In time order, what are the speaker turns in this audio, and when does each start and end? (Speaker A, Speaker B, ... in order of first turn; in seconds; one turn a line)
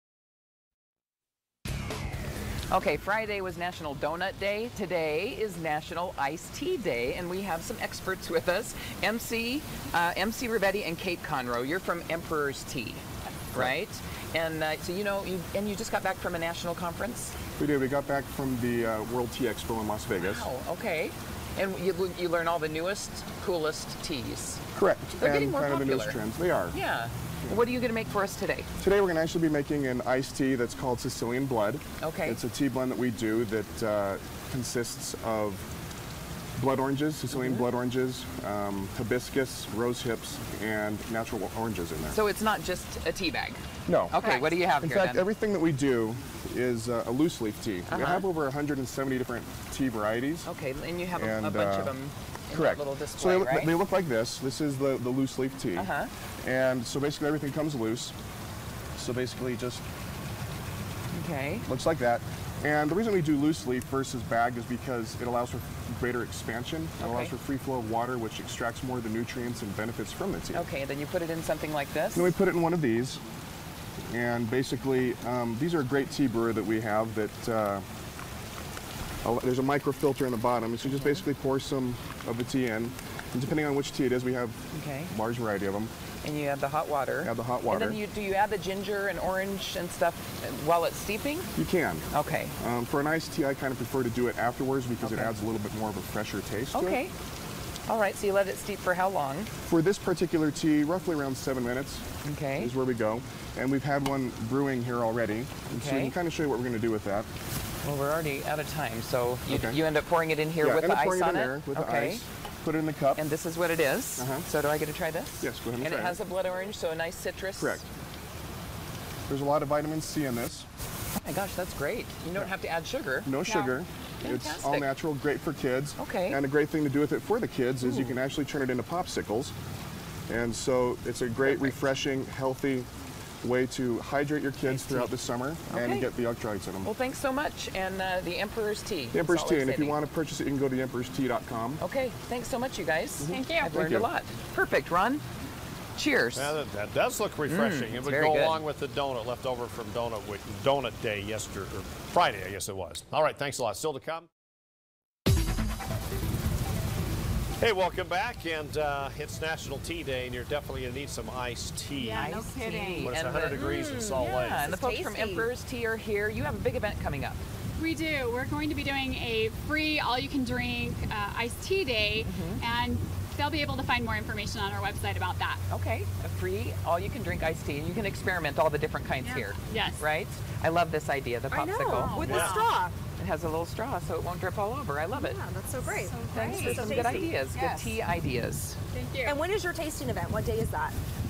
Speaker A: 2.7-17.4
Speaker B: 17.6-20.5
Speaker A: 20.2-24.6
Speaker B: 24.8-26.8
Speaker A: 25.2-26.2
Speaker A: 26.7-28.7
Speaker B: 28.8-35.7
Speaker A: 32.0-32.4
Speaker B: 36.6-42.2
Speaker A: 37.3-37.6
Speaker A: 42.1-45.3
Speaker B: 43.9-44.2
Speaker B: 44.8-50.5
Speaker A: 47.9-48.3
Speaker A: 50.5-53.8
Speaker B: 51.1-52.0
Speaker B: 52.5-55.9
Speaker A: 55.7-56.1
Speaker B: 56.4-58.1
Speaker B: 59.0-59.8
Speaker A: 61.1-61.6
Speaker B: 61.7-70.7
Speaker A: 67.0-67.3
Speaker A: 70.5-72.3
Speaker B: 72.1-73.2
Speaker B: 74.1-77.9
Speaker B: 79.2-85.9
Speaker A: 80.8-81.2
Speaker A: 84.7-85.1
Speaker A: 86.2-91.5
Speaker B: 87.2-88.0
Speaker B: 91.5-97.0
Speaker A: 92.1-92.5
Speaker A: 95.0-95.3
Speaker A: 96.7-97.1
Speaker A: 97.9-99.5
Speaker B: 99.6-102.0
Speaker A: 102.2-102.7
Speaker B: 102.6-107.3
Speaker A: 105.7-106.2
Speaker A: 107.8-112.2
Speaker B: 109.5-109.8
Speaker B: 110.6-113.2
Speaker A: 113.2-117.8
Speaker B: 114.2-114.5
Speaker B: 115.4-116.2
Speaker B: 117.6-117.8
Speaker B: 119.3-120.7
Speaker A: 121.2-124.9
Speaker B: 123.2-129.5
Speaker A: 126.0-126.4
Speaker A: 127.8-128.2
Speaker B: 130.3-132.9
Speaker A: 131.4-131.8
Speaker B: 133.4-136.9
Speaker A: 134.7-135.1
Speaker A: 135.7-136.1
Speaker A: 136.8-140.0
Speaker B: 139.1-141.8
Speaker A: 141.8-145.2
Speaker B: 143.2-144.1
Speaker A: 146.0-146.5
Speaker C: 146.3-154.3
Speaker A: 147.5-148.6
Speaker C: 157.6-162.3
Speaker D: 162.0-162.3
Speaker E: 162.1-165.5
Speaker A: 162.2-167.4
Speaker C: 162.9-164.8
Speaker D: 167.8-175.6
Speaker A: 172.2-172.6
Speaker A: 175.7-185.4
Speaker D: 179.2-180.0
Speaker E: 181.5-182.9
Speaker D: 182.2-182.4
Speaker C: 182.2-182.6
Speaker E: 185.1-187.8
Speaker D: 185.9-187.1
Speaker A: 186.3-188.8
Speaker D: 188.9-189.4
Speaker E: 189.2-191.0